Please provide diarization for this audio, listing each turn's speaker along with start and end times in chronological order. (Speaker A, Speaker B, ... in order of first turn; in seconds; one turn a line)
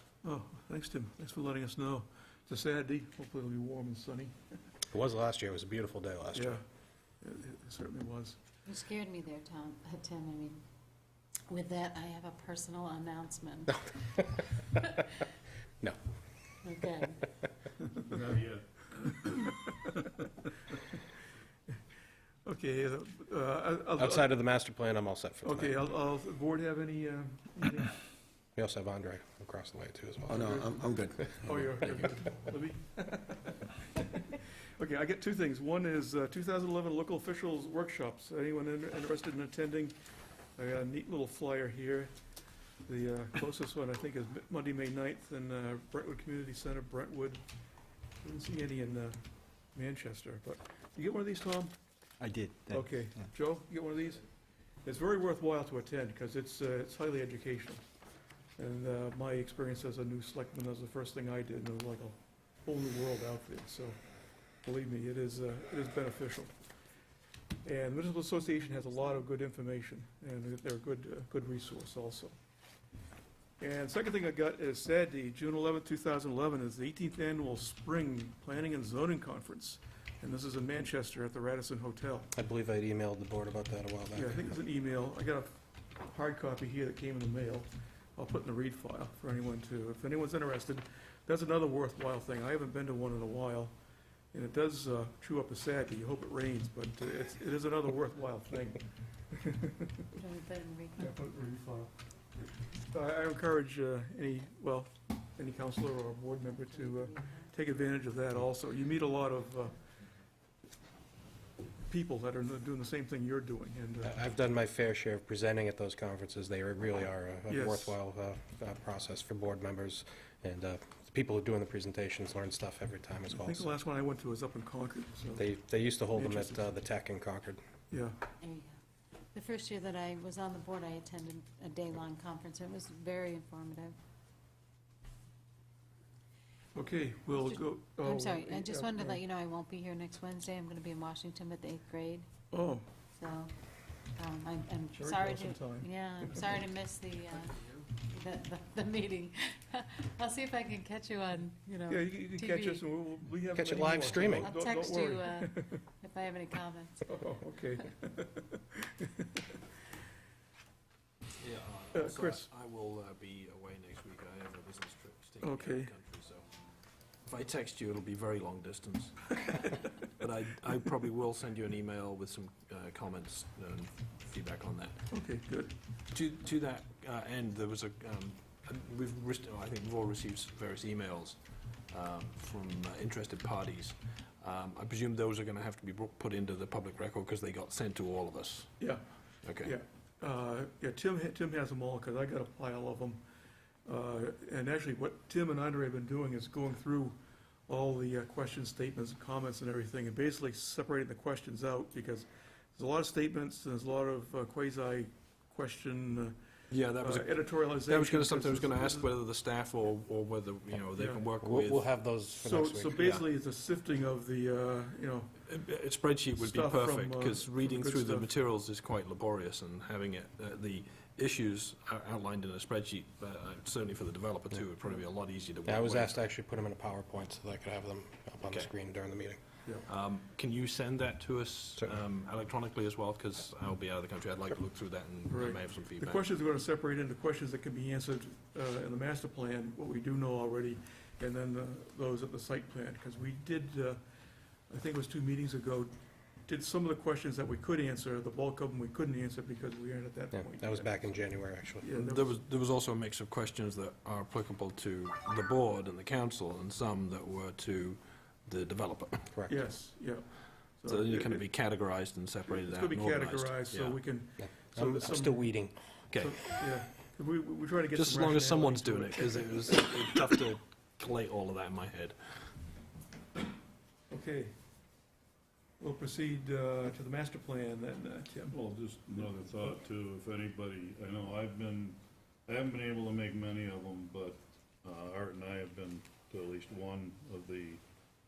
Speaker A: 0.2-4.6
Speaker B: 4.9-6.6
Speaker A: 6.3-6.6
Speaker A: 7.2-8.4
Speaker C: 8.7-10.6
Speaker C: 11.5-15.0
Speaker B: 14.3-14.6
Speaker C: 16.6-17.4
Speaker D: 18.1-19.1
Speaker A: 19.2-19.5
Speaker A: 22.4-24.3
Speaker B: 24.0-25.7
Speaker A: 25.4-28.0
Speaker B: 28.6-30.6
Speaker E: 30.3-32.2
Speaker A: 30.3-39.9
Speaker A: 40.6-42.1
Speaker A: 42.8-47.4
Speaker A: 48.2-49.2
Speaker A: 49.7-51.8
Speaker E: 52.2-53.3
Speaker A: 52.7-54.3
Speaker A: 54.8-57.8
Speaker A: 58.6-64.0
Speaker A: 64.6-66.5
Speaker A: 67.6-72.3
Speaker A: 73.6-82.3
Speaker B: 82.3-84.5
Speaker A: 84.1-93.7
Speaker A: 94.3-100.0
Speaker C: 100.2-101.2
Speaker A: 101.0-101.9
Speaker A: 102.8-109.8
Speaker C: 106.4-107.5
Speaker A: 111.9-114.1
Speaker B: 114.0-123.7
Speaker A: 117.5-118.0
Speaker A: 123.3-125.4
Speaker B: 125.4-127.6
Speaker A: 126.1-126.6
Speaker A: 127.9-128.2
Speaker C: 128.4-128.8
Speaker C: 129.3-133.9
Speaker A: 136.7-139.2
Speaker C: 137.3-142.3
Speaker A: 142.5-142.9
Speaker C: 143.2-143.5
Speaker C: 144.1-152.8
Speaker A: 144.9-146.6
Speaker A: 151.9-155.8
Speaker B: 153.5-154.5
Speaker C: 154.4-157.2
Speaker A: 157.0-159.4
Speaker F: 161.4-166.4
Speaker A: 161.9-162.5
Speaker A: 165.4-165.9
Speaker F: 167.2-175.0
Speaker A: 175.1-175.7
Speaker F: 176.1-188.8
Speaker F: 189.4-189.7
Speaker A: 189.6-193.2
Speaker A: 193.8-206.3
Speaker F: 206.7-212.0
Speaker A: 206.9-209.1
Speaker A: 210.9-211.2
Speaker B: 211.4-213.2
Speaker A: 212.4-215.4
Speaker F: 215.4-226.2
Speaker A: 216.3-218.3
Speaker B: 225.6-229.4
Speaker F: 228.4-228.7
Speaker F: 229.8-236.2
Speaker A: 235.3-244.0
Speaker A: 244.7-245.9
Speaker A: 246.5-251.2
Speaker B: 250.3-251.9
Speaker A: 251.8-252.3
Speaker F: 251.9-259.3
Speaker A: 259.5-261.5
Speaker F: 260.9-264.0
Speaker A: 262.5-265.6
Speaker B: 264.4-265.8
Speaker F: 266.1-266.8
Speaker A: 266.1-270.4
Speaker F: 267.9-272.2
Speaker A: 274.1-274.5
Speaker A: 275.8-278.6
Speaker D: 278.5-287.8